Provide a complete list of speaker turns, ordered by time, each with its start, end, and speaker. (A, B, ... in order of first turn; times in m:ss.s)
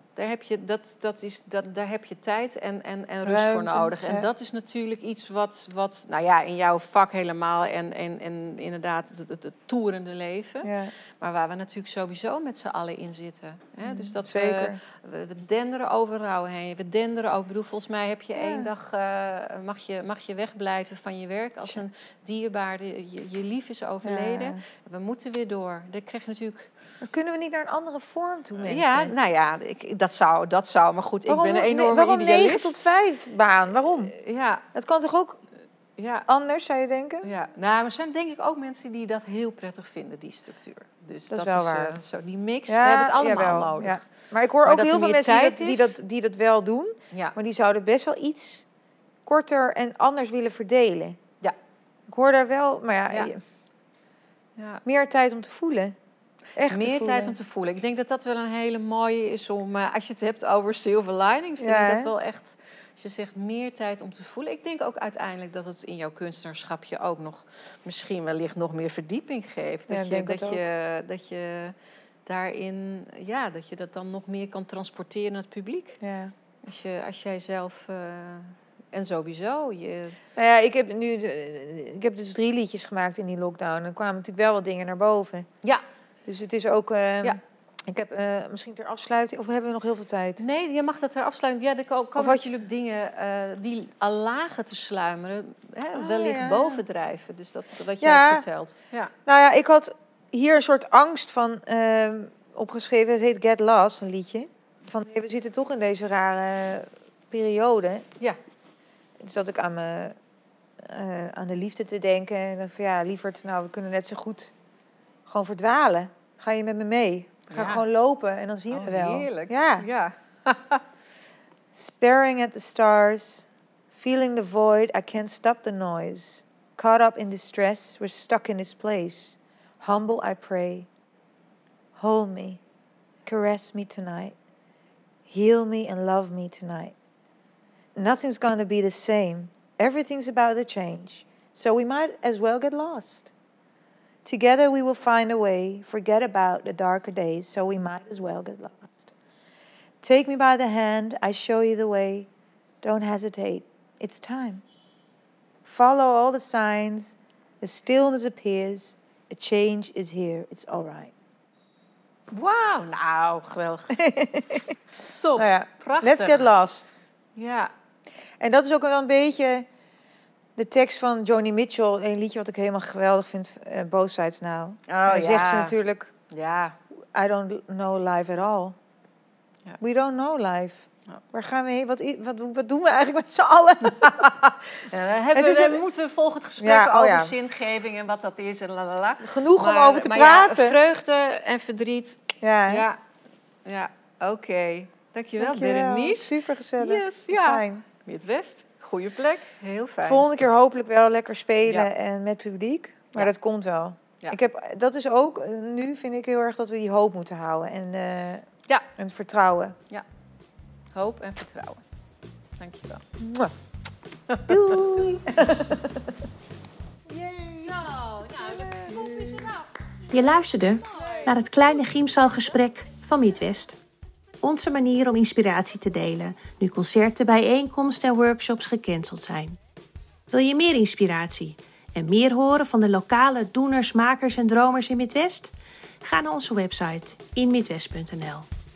0:00.2-0:26.7 A
0:03.2-0:04.3 B
0:10.6-0:10.9 B
0:13.8-0:14.8 B
0:18.4-0:18.7 B
0:24.0-0:24.6 B
0:27.0-0:29.1 B
0:28.6-0:32.9 A
0:31.3-0:34.1 B
0:34.1-0:34.6 A
0:34.7-0:35.4 B
0:36.0-0:36.3 A
0:36.3-0:37.3 B
0:37.2-0:44.0 A
0:41.3-0:42.0 B
0:42.7-0:48.6 B
0:44.6-0:46.0 A
0:49.2-0:51.2 B
0:52.1-0:53.4 B
0:54.6-0:54.8 A
0:54.8-0:55.9 B
0:56.6-0:57.4 B
0:56.6-1:11.7 A
1:01.6-1:02.1 B
1:09.9-1:10.6 B
1:12.2-1:16.0 A
1:16.0-1:16.3 B
1:16.6-1:20.2 A
1:20.4-1:25.5 B
1:26.2-1:30.4 B
1:30.4-1:39.1 A
1:32.2-1:32.5 B
1:35.9-1:36.8 B
1:38.0-1:38.4 B
1:39.2-1:48.0 B
1:49.2-1:50.1 B
1:50.8-1:54.5 B
1:55.2-1:59.9 B
1:57.5-1:57.8 A
1:58.7-2:00.8 A
2:01.7-2:10.9 B
2:12.0-2:12.6 B
2:13.2-2:14.4 B
2:15.3-2:16.9 B
2:18.0-2:23.3 B
2:24.2-2:29.1 B
2:30.0-2:32.3 B
2:32.8-2:34.6 B
2:35.6-2:41.1 B
2:42.3-2:44.0 A
2:43.9-2:44.7 B
2:45.1-2:46.5 A
2:45.3-2:46.9 B
2:47.4-2:47.7 A
2:48.4-2:49.6 B
2:50.6-2:56.1 B
2:54.9-2:55.8 A
2:56.3-2:56.8 A
2:57.1-2:58.8 B
2:59.8-3:04.6 B
3:04.7-3:13.0 A
3:05.3-3:05.8 B
3:06.6-3:07.4 B
3:09.2-3:10.8 B
3:12.4-3:12.9 B
3:13.6-3:20.3 A
3:15.4-3:17.8 B
3:20.0-3:29.8 B
3:21.6-3:21.9 A
3:30.9-3:31.8 A
3:32.6-3:33.0 A
3:33.2-3:33.5 B
3:34.3-3:35.0 A
3:34.5-3:36.0 B
3:37.1-3:39.5 B
3:37.6-3:39.7 A
3:40.1-3:43.8 C
3:40.8-3:41.3 A
3:44.4-3:49.6 C
3:50.3-3:58.5 C